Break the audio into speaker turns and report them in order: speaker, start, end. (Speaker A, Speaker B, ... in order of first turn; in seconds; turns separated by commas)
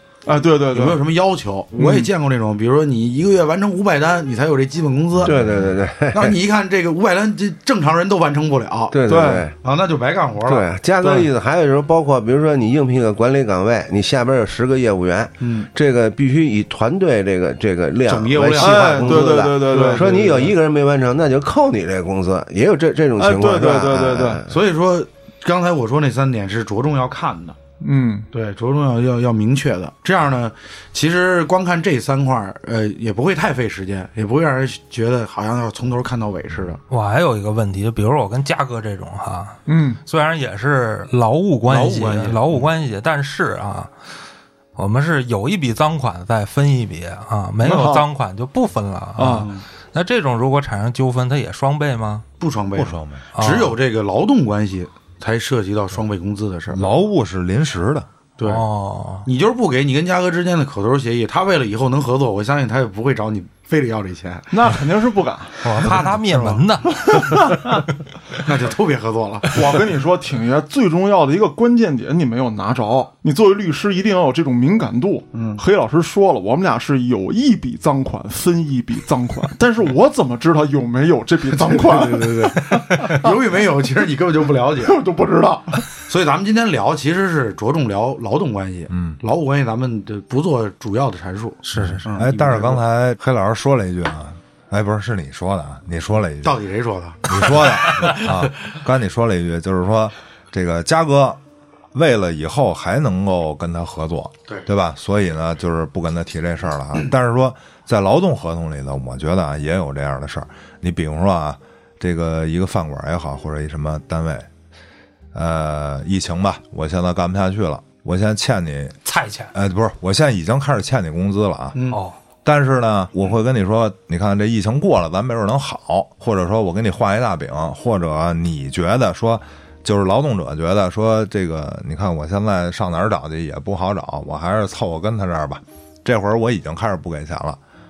Speaker A: 0.3-1.0, Speaker B: 0.7-5.4, Speaker A: 1.8-2.1, Speaker C: 5.2-5.5, Speaker D: 5.2-6.4, Speaker B: 6.1-9.0, Speaker D: 8.9-9.5, Speaker A: 9.1-9.5, Speaker B: 9.5-11.3, Speaker D: 10.4-24.6, Speaker B: 15.4-15.7, Speaker B: 18.1-20.1, Speaker A: 18.6-20.5, Speaker A: 23.2-24.4, Speaker B: 24.4-27.6, Speaker A: 27.8-28.3, Speaker B: 28.3-36.8, Speaker E: 36.9-43.9, Speaker A: 39.7-40.0, Speaker B: 41.7-42.6, Speaker E: 44.8-52.2, Speaker A: 47.6-48.1, Speaker A: 49.2-49.5, Speaker B: 49.3-49.6, Speaker B: 52.4-56.9, Speaker C: 52.8-53.3, Speaker E: 53.4-53.8, Speaker C: 56.7-58.1, Speaker B: 58.4-58.6, Speaker E: 58.4-59.3, Speaker B: 59.2-64.5, Speaker A: 64.5-65.6, Speaker E: 65.6-67.5, Speaker B: 65.8-66.6, Speaker A: 67.0-67.8, Speaker B: 68.4-69.6, Speaker A: 69.5-83.3, Speaker B: 75.3-75.6, Speaker B: 81.5-85.0, Speaker A: 84.8-85.8, Speaker B: 86.0-92.8, Speaker C: 88.9-89.2, Speaker E: 91.6-92.0, Speaker C: 91.7-96.6, Speaker B: 96.4-98.3, Speaker C: 97.3-101.4, Speaker C: 101.9-114.5, Speaker C: 115.3-119.0, Speaker E: 119.0-119.5, Speaker C: 119.5-121.8, Speaker B: 121.8-122.0, Speaker E: 121.9-122.2, Speaker C: 122.5-137.6